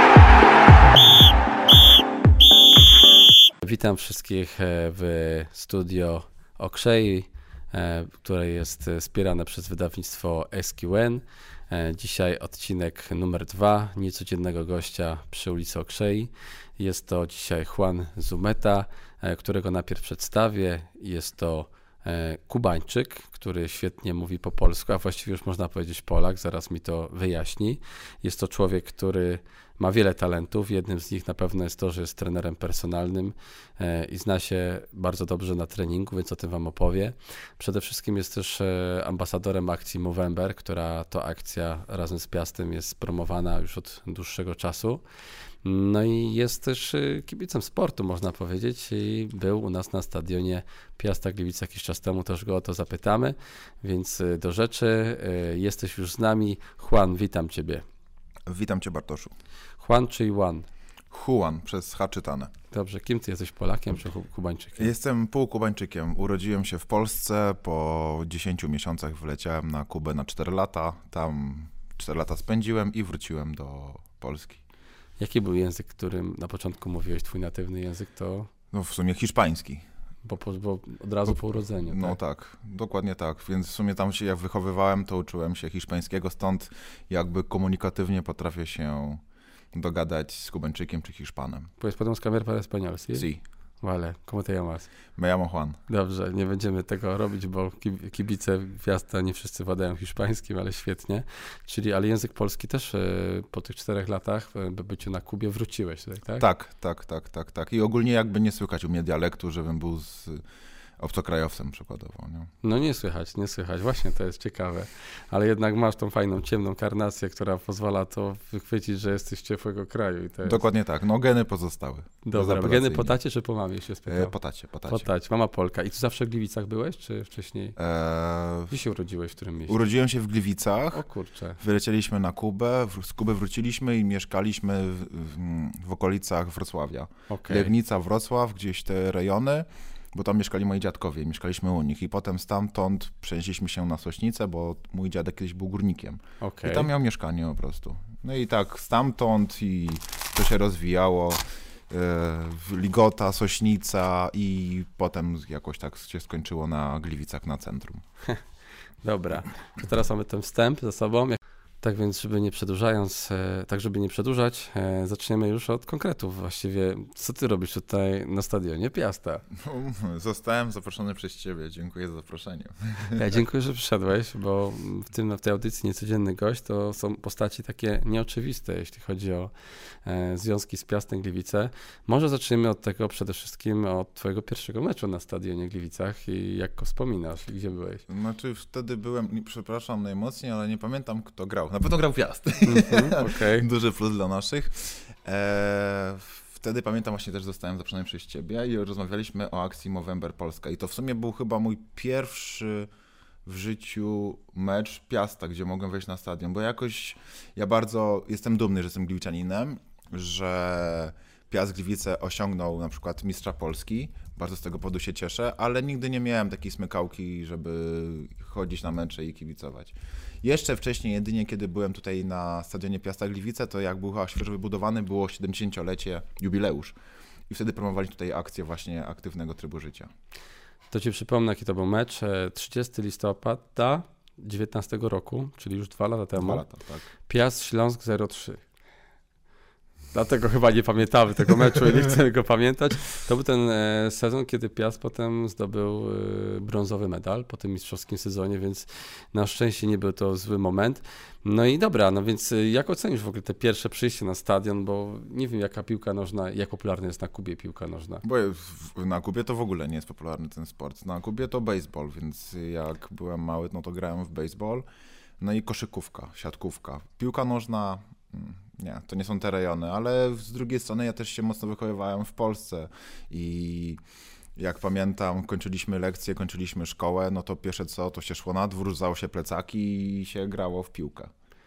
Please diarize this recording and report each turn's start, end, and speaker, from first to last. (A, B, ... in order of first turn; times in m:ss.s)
0:03.6-0:45.0 A
0:45.6-0:57.8 A
0:58.5-0:59.3 B
0:59.8-1:00.7 A
1:01.1-1:02.5 B
1:02.7-1:04.9 A
1:04.8-1:14.6 B
1:15.2-1:18.5 A
1:18.7-1:19.8 B
1:20.3-1:22.2 A
1:21.3-1:29.2 B
1:29.7-1:31.7 B
1:31.8-1:33.3 A
1:33.1-1:33.4 B
1:33.8-1:34.9 A
1:35.2-1:35.8 B
1:35.9-1:46.4 A
1:46.4-1:50.4 B
1:51.0-1:52.5 B
1:52.6-2:00.6 A
2:00.4-2:03.2 B
2:02.2-2:04.4 A
2:04.1-2:05.0 B
2:04.9-2:07.8 A
2:07.8-2:08.8 B
2:08.7-2:09.8 A
2:09.7-2:11.0 B
2:10.9-2:11.6 A
2:11.6-2:38.0 B
2:17.3-2:17.7 A
2:26.4-2:26.9 A
2:39.0-2:49.4 A
2:49.6-2:53.4 B
2:53.1-2:59.5 A
3:00.0-3:08.0 A
3:08.1-3:22.9 B
3:12.6-3:13.7 A
3:23.4-3:47.0 B
3:47.5-3:50.1 B
3:50.9-3:56.6 A
3:56.4-3:57.0 B
3:57.2-3:58.6 A
4:00.1-4:18.2 A
4:18.2-4:24.9 B
4:25.4-4:34.0 B
4:34.6-4:41.3 B